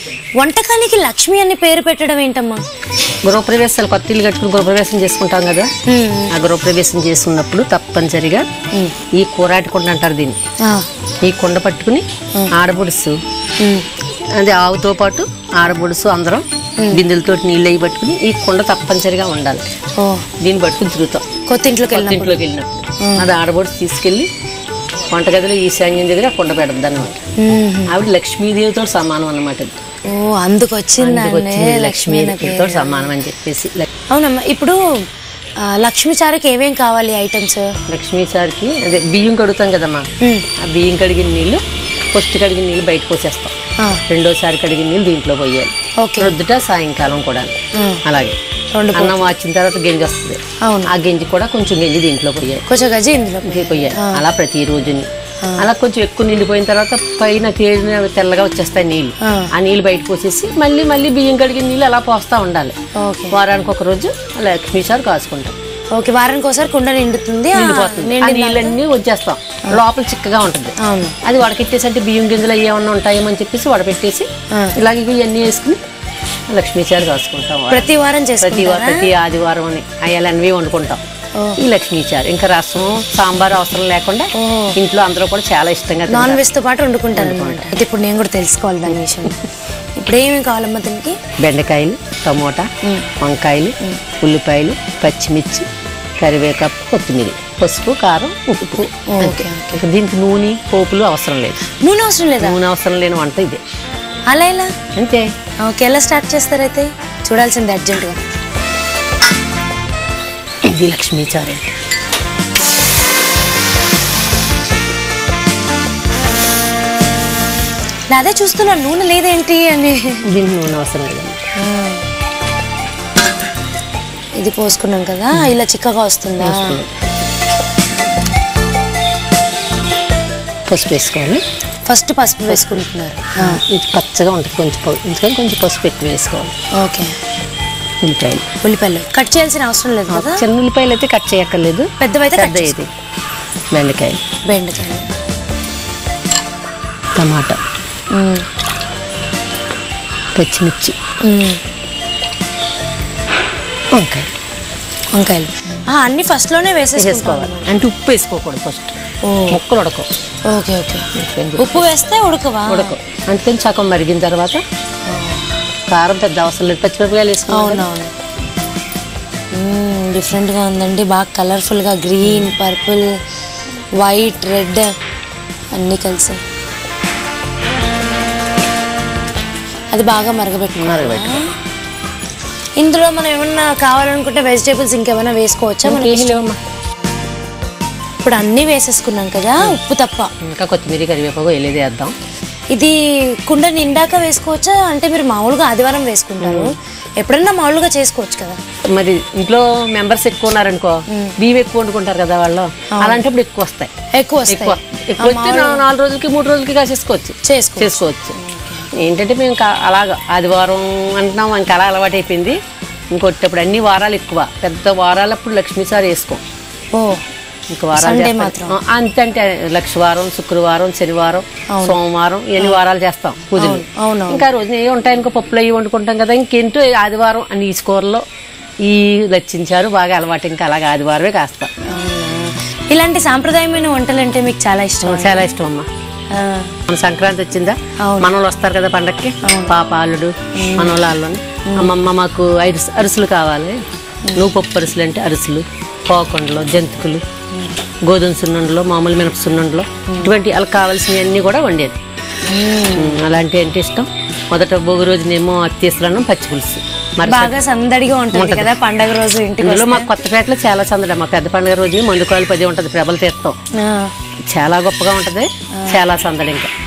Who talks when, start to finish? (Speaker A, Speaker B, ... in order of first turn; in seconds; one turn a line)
Speaker A: 0.4-2.6
Speaker B: 3.2-5.7
Speaker A: 5.9-6.3
Speaker B: 6.3-8.5
Speaker B: 9.1-10.4
Speaker B: 11.2-13.2
Speaker A: 13.6-13.9
Speaker B: 14.3-19.7
Speaker A: 20.0-20.3
Speaker B: 20.4-21.3
Speaker A: 21.5-22.4
Speaker B: 21.9-24.3
Speaker A: 23.0-23.3
Speaker B: 25.1-27.2
Speaker A: 27.4-28.0
Speaker B: 27.9-29.8
Speaker A: 30.1-33.1
Speaker B: 31.0-33.9
Speaker A: 34.1-34.8
Speaker A: 35.6-37.7
Speaker B: 37.9-43.5
Speaker A: 40.2-40.5
Speaker B: 44.1-48.4
Speaker A: 46.0-46.4
Speaker A: 47.8-48.0
Speaker A: 48.8-49.3
Speaker B: 48.9-52.6
Speaker A: 50.6-50.9
Speaker A: 52.7-54.2
Speaker B: 53.4-62.8
Speaker A: 59.2-59.5
Speaker A: 63.0-63.4
Speaker B: 63.3-65.6
Speaker A: 65.9-68.8
Speaker B: 67.5-75.8
Speaker A: 70.8-71.2
Speaker B: 76.5-77.9
Speaker A: 77.7-79.1
Speaker B: 78.4-81.0
Speaker B: 81.6-86.4
Speaker A: 84.4-84.8
Speaker A: 86.1-89.4
Speaker B: 87.1-87.7
Speaker A: 90.0-91.2
Speaker B: 91.4-92.7
Speaker B: 93.2-95.7
Speaker B: 96.2-101.6
Speaker A: 99.1-99.8
Speaker A: 101.7-102.6
Speaker B: 102.4-103.6
Speaker A: 104.3-104.7
Speaker B: 105.0-105.3
Speaker A: 105.6-108.2
Speaker B: 110.6-111.8
Speaker A: 118.1-120.3
Speaker B: 120.3-121.4
Speaker A: 121.6-122.0
Speaker A: 124.4-126.8
Speaker B: 126.4-126.9
Speaker B: 130.7-131.4
Speaker A: 131.9-133.6
Speaker B: 132.5-132.8
Speaker B: 133.4-136.5
Speaker A: 136.8-137.2
Speaker B: 138.0-138.5
Speaker A: 138.6-140.5
Speaker B: 140.1-142.9
Speaker A: 142.0-142.8
Speaker B: 143.7-144.2
Speaker A: 144.4-145.1
Speaker B: 147.2-147.6
Speaker A: 148.1-148.4
Speaker B: 150.3-151.0
Speaker A: 151.2-151.6
Speaker B: 153.9-154.3
Speaker A: 155.1-157.7
Speaker B: 157.0-159.0
Speaker A: 159.2-159.6
Speaker B: 159.5-160.1
Speaker A: 160.5-162.9
Speaker B: 161.1-161.9
Speaker B: 162.7-164.6
Speaker A: 165.1-165.4
Speaker B: 165.9-167.8
Speaker A: 167.5-168.1
Speaker A: 169.5-173.1
Speaker B: 172.2-172.5
Speaker A: 174.0-174.9
Speaker A: 175.7-176.4
Speaker A: 179.9-181.5
Speaker B: 180.8-181.4
Speaker A: 182.8-186.5
Speaker B: 185.8-186.6
Speaker A: 188.2-190.3
Speaker B: 190.4-192.2
Speaker A: 192.7-198.6
Speaker B: 196.4-196.7
Speaker B: 198.9-203.9
Speaker A: 201.1-201.3
Speaker A: 202.9-203.2
Speaker A: 204.1-205.8
Speaker B: 204.5-208.3
Speaker A: 207.4-208.9
Speaker B: 208.9-212.6
Speaker B: 213.1-216.4
Speaker A: 216.9-217.2
Speaker B: 217.7-228.2
Speaker A: 217.9-218.8
Speaker A: 223.6-224.5
Speaker B: 228.8-231.7
Speaker A: 231.9-235.5
Speaker B: 235.0-235.9
Speaker A: 236.3-236.7
Speaker B: 236.9-243.8
Speaker A: 238.0-238.3
Speaker A: 239.4-239.8
Speaker A: 240.6-241.0
Speaker A: 241.7-241.9
Speaker A: 244.2-244.5
Speaker B: 244.3-247.2
Speaker B: 248.1-252.0
Speaker A: 250.1-250.3
Speaker A: 252.5-253.2
Speaker B: 252.9-257.6
Speaker A: 257.2-260.1
Speaker B: 258.3-258.7
Speaker B: 259.6-263.6
Speaker A: 263.8-264.1
Speaker B: 264.5-266.7